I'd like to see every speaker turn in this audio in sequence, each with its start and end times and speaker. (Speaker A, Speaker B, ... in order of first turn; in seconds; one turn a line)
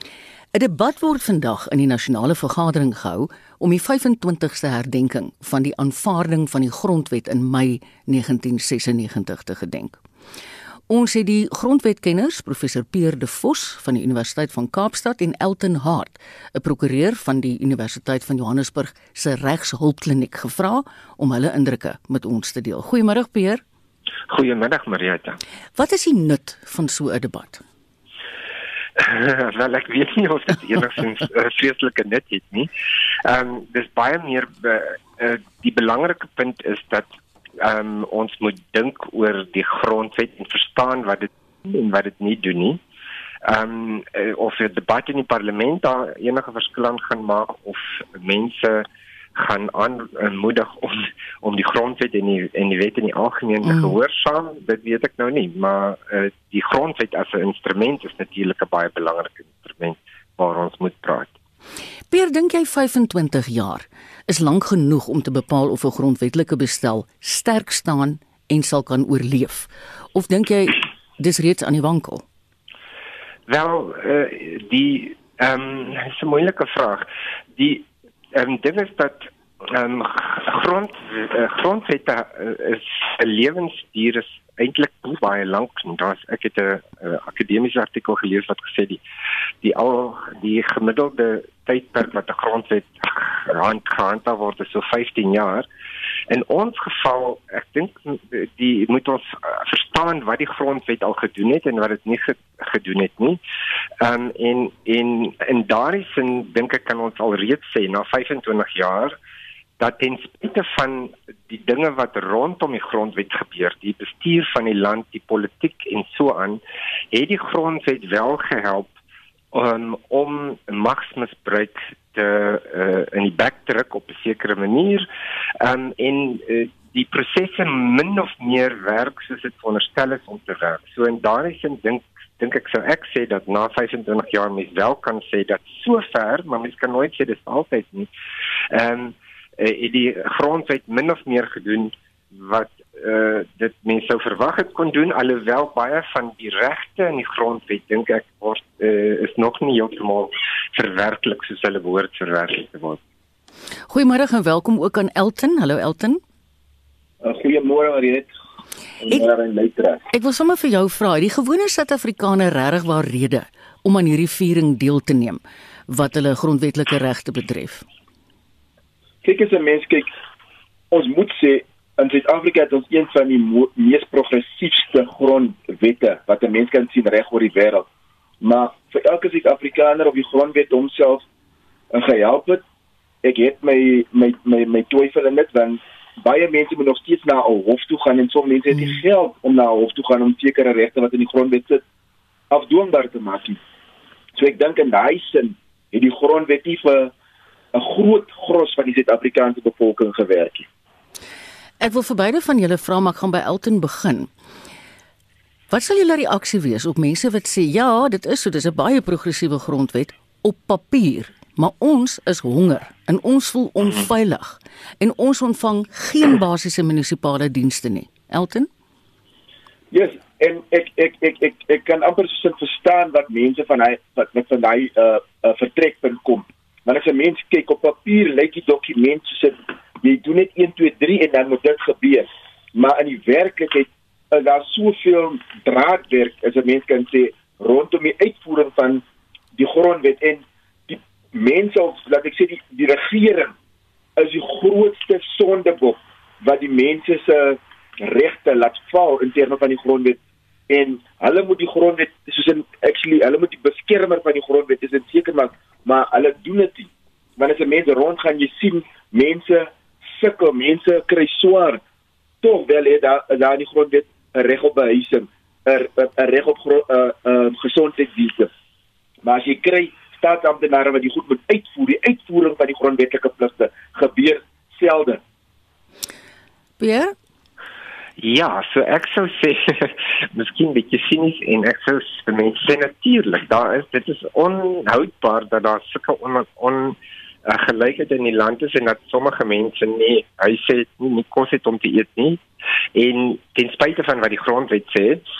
Speaker A: 0.5-10.0
Speaker A: 10.9-23.6
Speaker B: 24.3-25.4
Speaker A: 25.8-27.6
Speaker B: 29.0-32.7
Speaker B: 33.2-42.8
Speaker B: 43.4-61.3
Speaker A: 53.6-53.9
Speaker A: 62.1-72.2
Speaker B: 73.5-77.0
Speaker B: 77.5-89.0
Speaker B: 89.6-95.7
Speaker B: 96.3-103.4
Speaker B: 104.0-109.1
Speaker B: 109.8-116.6
Speaker B: 117.1-118.9
Speaker B: 119.5-125.0
Speaker B: 125.6-138.1
Speaker B: 138.7-153.0
Speaker A: 153.9-156.2
Speaker C: 157.2-158.3
Speaker C: 159.0-160.0
Speaker A: 160.1-167.8
Speaker C: 169.2-170.1
Speaker C: 170.9-177.8
Speaker C: 178.4-181.2
Speaker C: 181.9-182.6
Speaker C: 183.2-191.8
Speaker C: 192.5-193.6
Speaker C: 194.3-197.1
Speaker C: 197.7-200.7
Speaker A: 201.8-204.3
Speaker A: 205.7-218.7
Speaker C: 219.9-239.0
Speaker C: 239.5-243.5
Speaker C: 244.2-250.2
Speaker C: 250.7-261.8
Speaker C: 262.4-268.5
Speaker C: 269.2-275.2
Speaker A: 276.8-277.1
Speaker B: 278.2-292.4
Speaker B: 292.9-295.2